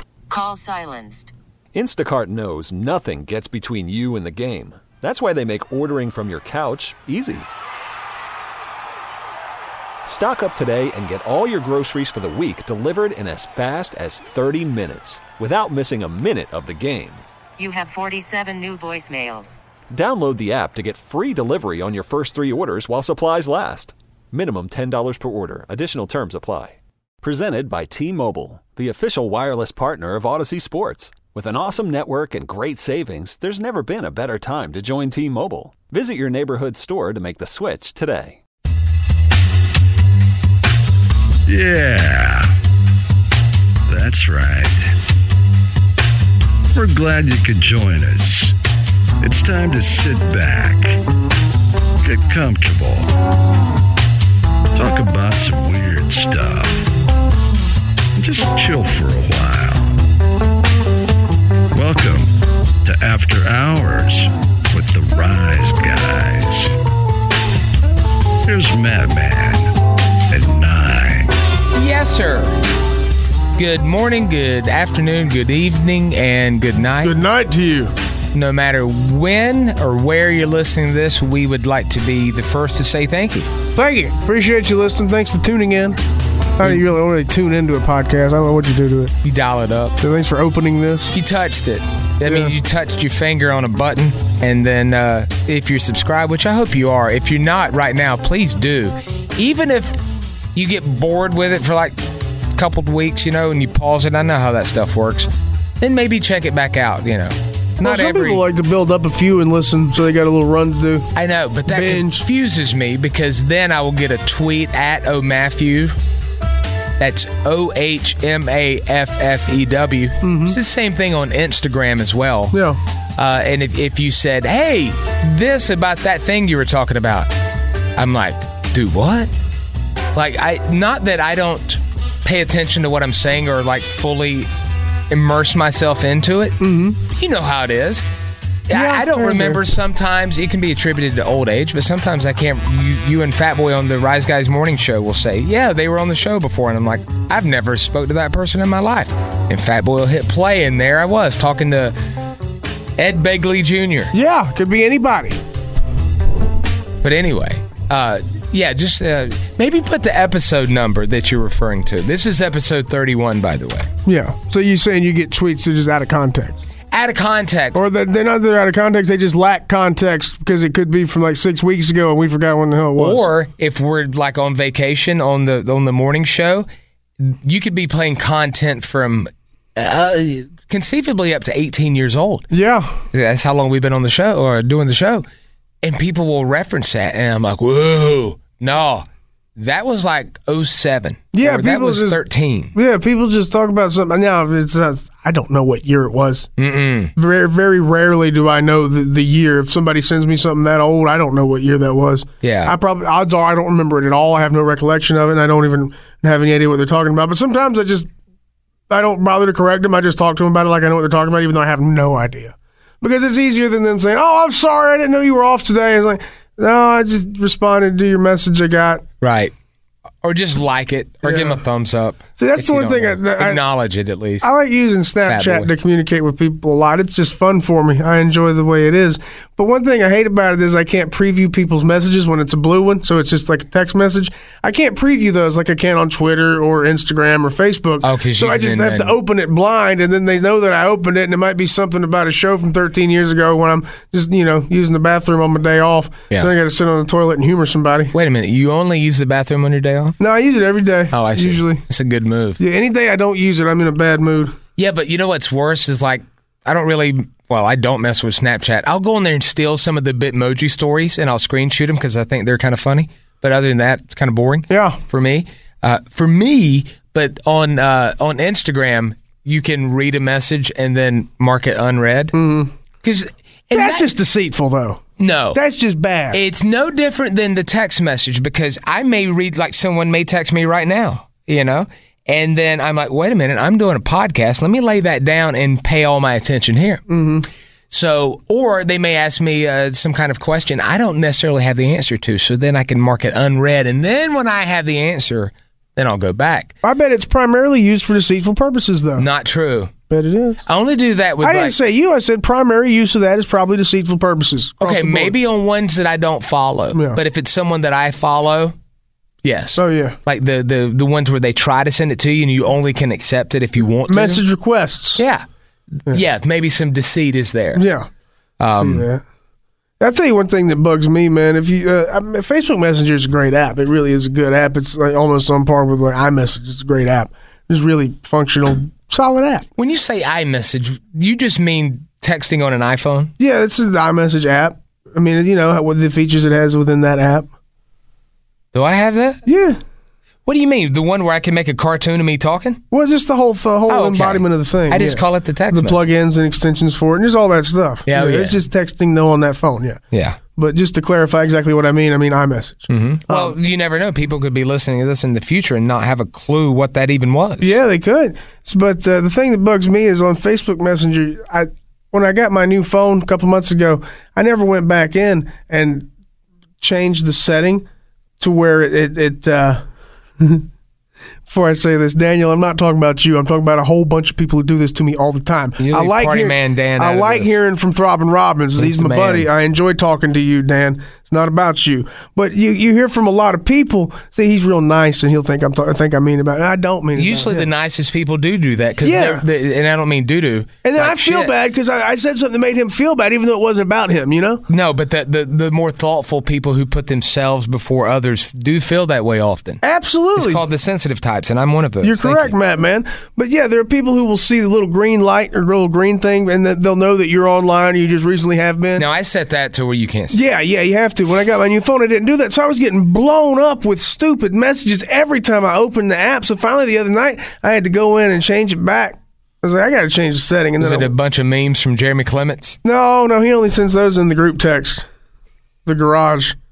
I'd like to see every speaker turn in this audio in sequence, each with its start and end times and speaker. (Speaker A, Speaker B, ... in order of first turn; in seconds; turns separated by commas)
Speaker A: 0.3-1.3, Speaker B: 1.7-7.5, Speaker B: 10.0-17.2, Speaker A: 17.6-19.6, Speaker B: 19.9-38.4, Speaker C: 41.5-42.5, Speaker C: 43.9-44.9, Speaker C: 46.7-48.5, Speaker C: 49.2-51.0, Speaker C: 52.0-53.1, Speaker C: 54.7-56.9, Speaker C: 58.1-59.9, Speaker C: 61.7-66.7, Speaker C: 68.4-69.7, Speaker C: 70.3-71.3, Speaker D: 71.7-72.5, Speaker D: 73.5-77.1, Speaker E: 77.0-77.9, Speaker D: 78.3-83.5, Speaker E: 83.7-86.0, Speaker E: 86.6-89.1, Speaker D: 89.2-90.0, Speaker E: 90.0-91.1, Speaker D: 91.1-100.0, Speaker E: 92.2-92.5, Speaker D: 100.5-102.0, Speaker D: 102.5-105.3, Speaker D: 105.8-108.4, Speaker E: 107.8-111.1, Speaker D: 111.1-115.9, Speaker E: 111.7-112.2, Speaker D: 117.0-122.6, Speaker E: 120.2-120.6, Speaker E: 122.5-122.8, Speaker D: 123.2-127.3, Speaker D: 128.0-129.3, Speaker D: 130.1-134.5, Speaker D: 135.1-138.0, Speaker E: 136.6-137.0, Speaker D: 138.7-151.9, Speaker E: 138.7-139.6, Speaker D: 153.0-154.1, Speaker E: 154.1-155.4, Speaker D: 157.0-163.9, Speaker E: 164.1-166.6, Speaker D: 166.9-167.8, Speaker E: 167.7-173.3, Speaker D: 172.9-176.7, Speaker D: 177.2-182.4, Speaker E: 182.5-183.0, Speaker D: 183.1-185.2, Speaker D: 185.8-192.7, Speaker E: 191.3-192.2, Speaker E: 192.7-196.5, Speaker D: 196.6-197.1, Speaker E: 197.2-208.1, Speaker D: 202.4-202.7, Speaker E: 208.9-219.0, Speaker D: 219.2-219.5, Speaker D: 220.2-224.5, Speaker E: 221.2-221.6, Speaker E: 222.4-223.6, Speaker E: 224.4-248.1, Speaker D: 225.2-225.7, Speaker D: 238.0-239.2, Speaker D: 248.1-250.2, Speaker E: 250.2-251.8, Speaker D: 251.1-252.6, Speaker E: 252.6-254.6, Speaker D: 254.8-272.4, Speaker E: 264.7-265.0, Speaker E: 272.3-272.7, Speaker D: 273.0-274.1, Speaker E: 273.7-275.0, Speaker D: 275.2-275.6, Speaker E: 275.5-276.4, Speaker D: 276.3-287.0, Speaker E: 287.1-287.5, Speaker D: 287.9-296.7, Speaker E: 296.8-299.3, Speaker D: 299.2-299.9, Speaker E: 300.1-300.6, Speaker D: 300.6-301.8, Speaker E: 301.4-305.3, Speaker D: 304.8-308.7, Speaker E: 306.9-307.2, Speaker D: 309.4-314.4, Speaker E: 309.8-310.2, Speaker E: 314.1-315.2, Speaker D: 315.1-315.4, Speaker D: 315.9-317.9, Speaker E: 317.7-318.1, Speaker D: 318.6-319.0, Speaker E: 318.8-319.2, Speaker E: 320.0-329.6, Speaker D: 329.8-333.3, Speaker E: 333.4-337.5, Speaker D: 338.7-339.4, Speaker E: 339.4-339.8, Speaker D: 340.4-342.8, Speaker E: 342.9-350.0, Speaker D: 343.9-346.1, Speaker D: 348.1-348.6, Speaker D: 350.1-350.4, Speaker E: 350.6-353.6, Speaker D: 352.9-357.8, Speaker E: 357.6-366.1, Speaker E: 366.8-367.9, Speaker E: 368.4-369.8, Speaker E: 370.4-370.6, Speaker E: 371.5-387.7, Speaker D: 375.8-377.6, Speaker D: 378.8-379.5, Speaker D: 387.1-391.5, Speaker E: 389.0-389.4, Speaker E: 390.8-394.6, Speaker D: 394.7-399.8, Speaker E: 399.8-400.6, Speaker D: 400.3-402.6, Speaker E: 402.0-409.1, Speaker D: 409.0-410.4, Speaker E: 410.3-421.1, Speaker D: 420.8-422.8, Speaker E: 422.8-425.1, Speaker E: 425.8-426.6